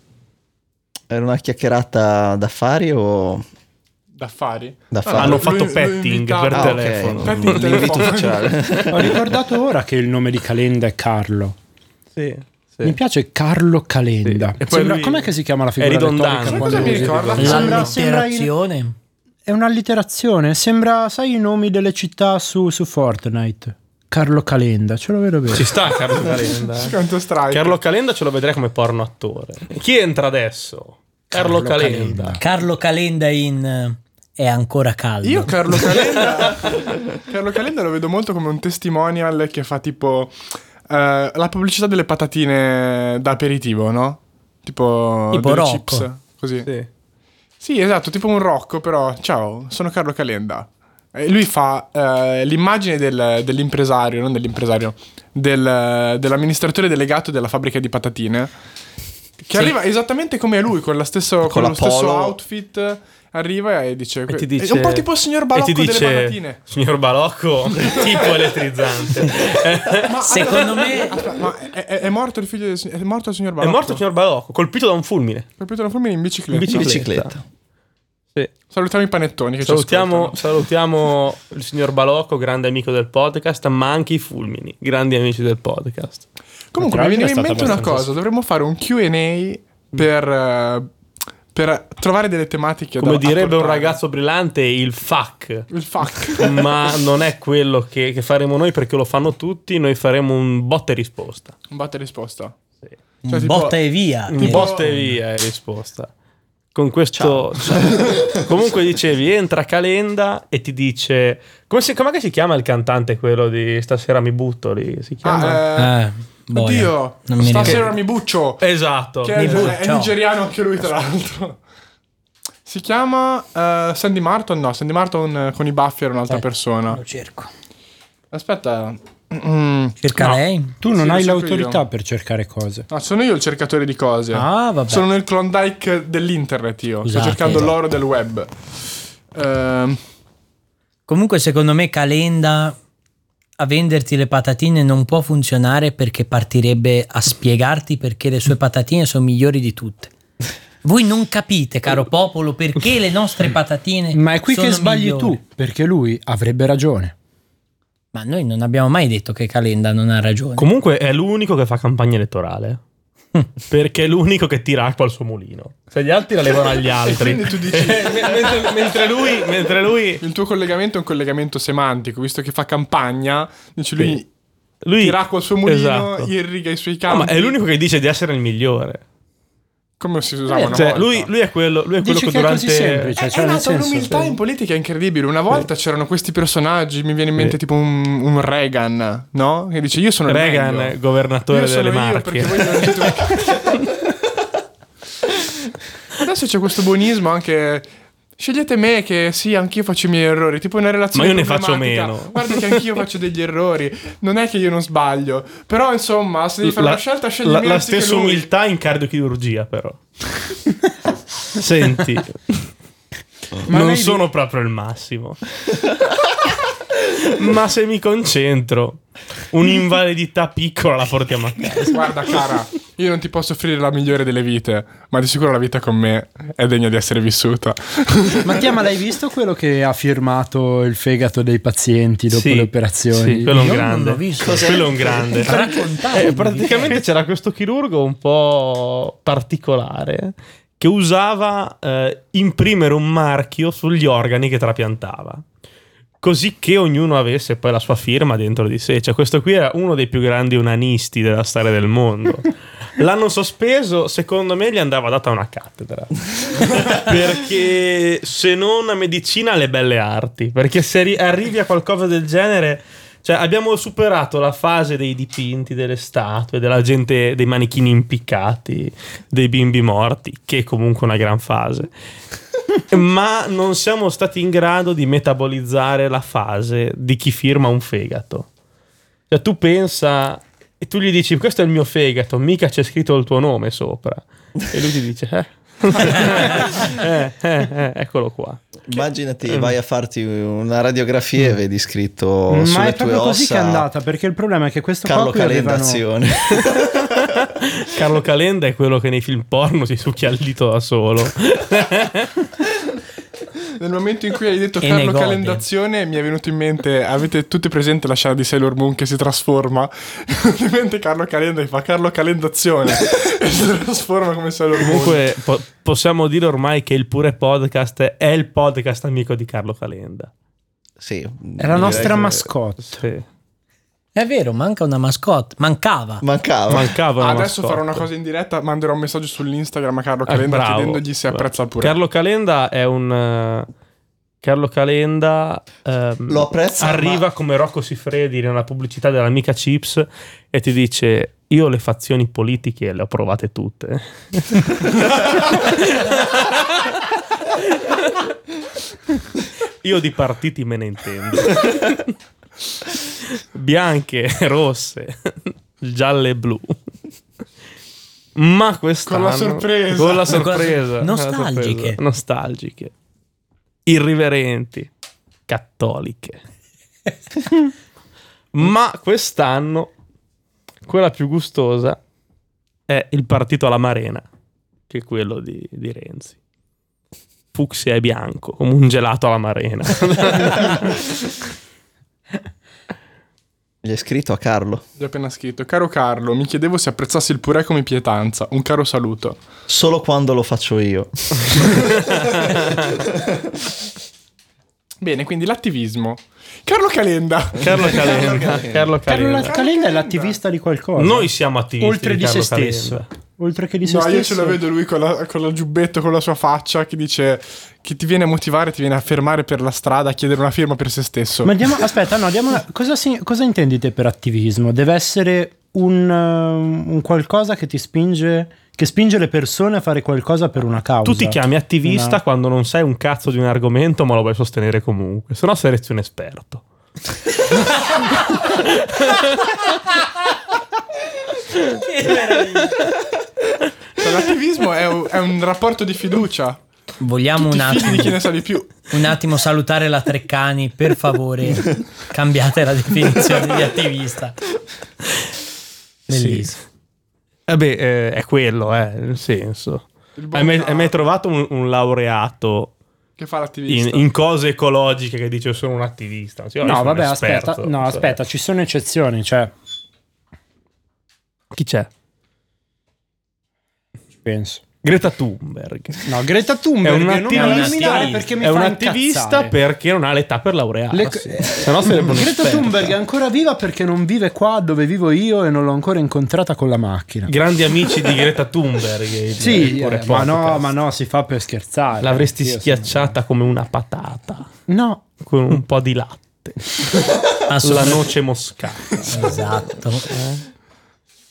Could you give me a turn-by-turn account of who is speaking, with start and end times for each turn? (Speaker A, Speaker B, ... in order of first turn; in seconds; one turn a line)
Speaker A: 1.1-3.4
Speaker B: 4.1-8.6
Speaker A: 4.9-5.5
Speaker C: 5.2-8.2
Speaker A: 6.5-9.3
Speaker D: 8.9-11.6
Speaker C: 12.1-13.0
Speaker D: 12.8-18.5
Speaker C: 14.2-17.7
Speaker B: 16.4-17.9
Speaker E: 17.4-18.9
Speaker D: 19.4-25.7
Speaker C: 25.5-26.9
Speaker B: 26.6-27.7
Speaker C: 27.5-32.4
Speaker D: 31.3-32.4
Speaker E: 32.4-36.0
Speaker B: 35.2-46.7
Speaker E: 45.3-46.1
Speaker B: 47.6-58.5
Speaker B: 59.5-66.6
Speaker A: 61.4-62.4
Speaker C: 64.3-71.0
Speaker B: 67.8-68.4
Speaker B: 70.0-74.0
Speaker E: 70.1-71.2
Speaker C: 73.6-75.5
Speaker B: 75.6-76.9
Speaker C: 76.5-77.3
Speaker A: 76.7-77.4
Speaker B: 78.7-80.4
Speaker C: 79.6-86.2
Speaker B: 86.7-90.9
Speaker D: 86.8-88.1
Speaker B: 91.5-94.0
Speaker C: 93.0-101.5
Speaker B: 95.7-96.9
Speaker B: 101.7-102.5
Speaker E: 103.2-104.8
Speaker B: 103.3-103.8
Speaker C: 104.3-106.1
Speaker B: 104.3-105.1
Speaker C: 106.7-115.6
Speaker A: 107.1-108.1
Speaker B: 115.2-116.0
Speaker E: 115.7-117.9
Speaker B: 116.5-118.6
Speaker C: 118.6-119.7
Speaker B: 119.2-121.6
Speaker E: 119.3-120.2
Speaker B: 122.6-127.0
Speaker E: 126.3-127.5
Speaker B: 128.3-130.0
Speaker E: 130.0-130.7
Speaker D: 130.8-132.9
Speaker B: 130.9-131.8
Speaker B: 132.9-140.0
Speaker E: 134.3-135.1
Speaker E: 137.0-137.7
Speaker E: 141.1-142.8
Speaker E: 143.6-150.1
Speaker E: 150.8-155.4
Speaker D: 154.1-157.1
Speaker E: 158.1-160.7
Speaker C: 160.6-162.8
Speaker C: 163.7-170.2
Speaker B: 167.0-169.0
Speaker B: 170.2-174.3
Speaker C: 174.8-176.3
Speaker B: 175.0-177.6
Speaker C: 177.1-179.0
Speaker B: 180.0-181.3
Speaker D: 180.5-180.9
Speaker C: 180.7-183.1
Speaker D: 182.0-184.2
Speaker B: 183.2-191.0
Speaker C: 190.3-193.2
Speaker B: 191.5-193.7
Speaker B: 196.1-208.5
Speaker C: 201.1-202.8
Speaker C: 206.6-210.5
Speaker C: 211.5-212.7
Speaker D: 213.7-214.2
Speaker C: 213.7-215.5
Speaker C: 217.0-222.1
Speaker B: 221.8-228.6
Speaker D: 228.4-233.7
Speaker C: 232.3-245.4
Speaker E: 233.5-234.8
Speaker A: 234.4-235.8
Speaker E: 235.3-237.0
Speaker C: 246.2-271.9
Speaker C: 272.7-278.5
Speaker C: 279.3-288.6
Speaker A: 288.9-293.9
Speaker C: 289.5-289.7
Speaker D: 292.5-296.0
Speaker A: 295.0-297.3
Speaker C: 296.6-302.3
Speaker B: 303.8-315.3
Speaker E: 304.8-305.6
Speaker C: 314.8-320.3
Speaker A: 321.0-322.4
Speaker D: 321.6-323.0
Speaker C: 321.8-323.2
Speaker E: 324.1-326.2
Speaker A: 326.2-326.9
Speaker C: 326.7-328.1
Speaker B: 327.2-331.9
Speaker C: 330.3-333.7
Speaker C: 334.4-348.3
Speaker A: 336.3-337.2
Speaker C: 349.8-352.1
Speaker C: 352.9-356.8
Speaker C: 358.3-362.9
Speaker B: 359.1-360.6
Speaker E: 360.3-362.0
Speaker C: 363.9-364.9
Speaker C: 365.5-366.4
Speaker C: 368.5-369.9
Speaker C: 370.9-372.0
Speaker C: 372.9-374.2
Speaker C: 374.9-376.4
Speaker C: 377.5-381.1
Speaker A: 383.8-384.8
Speaker B: 385.0-389.4
Speaker A: 389.7-393.2
Speaker C: 392.2-392.6
Speaker B: 395.0-398.4
Speaker C: 397.6-399.5
Speaker A: 397.6-398.9
Speaker D: 399.0-404.6
Speaker B: 399.3-400.4
Speaker C: 401.0-403.1
Speaker B: 403.8-411.5
Speaker D: 411.4-422.2
Speaker C: 421.0-426.6
Speaker C: 428.2-429.6
Speaker E: 431.8-432.7
Speaker B: 434.0-436.6
Speaker E: 437.0-438.2
Speaker B: 437.4-438.9
Speaker E: 438.9-444.4
Speaker C: 446.1-446.5
Speaker E: 446.1-446.6
Speaker C: 447.5-452.7
Speaker B: 450.1-450.9
Speaker B: 453.2-454.1
Speaker C: 453.7-458.2
Speaker D: 456.6-459.5
Speaker C: 461.5-461.9
Speaker D: 464.2-464.6
Speaker C: 464.8-466.1
Speaker D: 466.1-469.5
Speaker C: 466.8-472.9
Speaker E: 467.3-468.3
Speaker D: 470.9-477.3
Speaker C: 477.3-480.7
Speaker D: 479.4-483.1
Speaker C: 482.0-484.5
Speaker D: 484.7-485.0
Speaker C: 485.2-489.5
Speaker E: 487.4-488.1
Speaker E: 489.1-490.1
Speaker C: 490.1-490.4